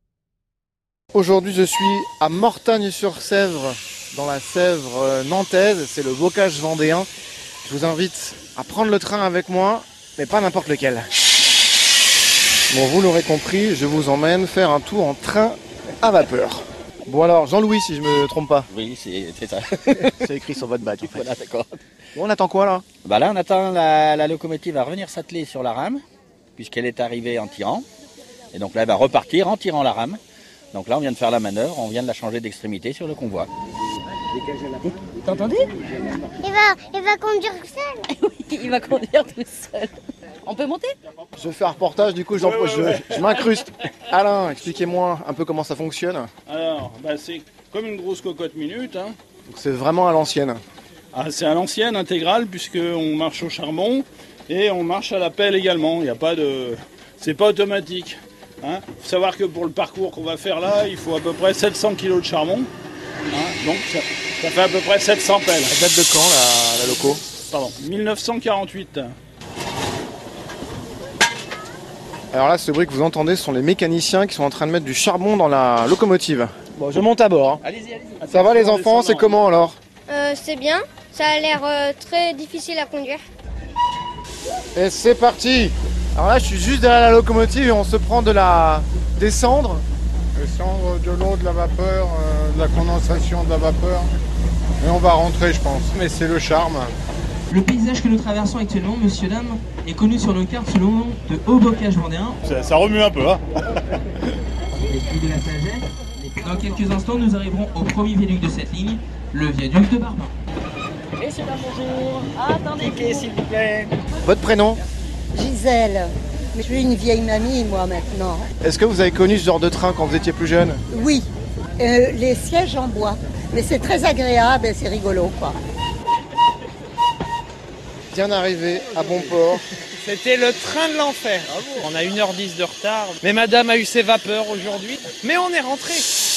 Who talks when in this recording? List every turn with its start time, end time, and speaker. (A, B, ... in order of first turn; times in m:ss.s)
0:01.1-0:07.1 A
0:07.6-0:11.1 A
0:12.7-0:18.7 A
0:18.7-0:21.7 B
0:20.2-0:21.3 A
0:22.2-0:22.8 A
0:23.0-0:26.0 B
0:26.6-0:27.9 B
0:28.5-0:30.2 B
0:30.7-0:33.5 B
0:34.8-0:35.7 C
0:36.4-0:38.0 D
0:38.1-0:41.0 C
0:41.4-0:46.3 A
0:42.4-0:43.3 E
0:46.5-0:49.2 E
0:49.5-0:50.6 A
0:51.1-1:02.7 E
1:03.3-1:05.7 E
1:05.7-1:07.2 A
1:07.5-1:09.2 E
1:12.3-1:17.6 A
1:18.2-1:19.4 E
1:18.3-1:19.8 A
1:20.1-1:23.2 D
1:24.8-1:29.8 A
1:30.4-1:34.1 F
1:34.8-1:36.9 F
1:37.5-1:42.4 G
1:42.4-1:43.4 E
1:44.9-1:50.3 G
1:52.6-1:53.3 C
1:52.8-1:53.2 B
1:54.2-1:54.8 A
1:55.3-1:58.5 H
1:58.6-2:00.8 A
2:00.9-2:01.3 H
2:01.8-2:05.6 H
2:08.1-2:09.6 A
2:10.0-2:16.1 I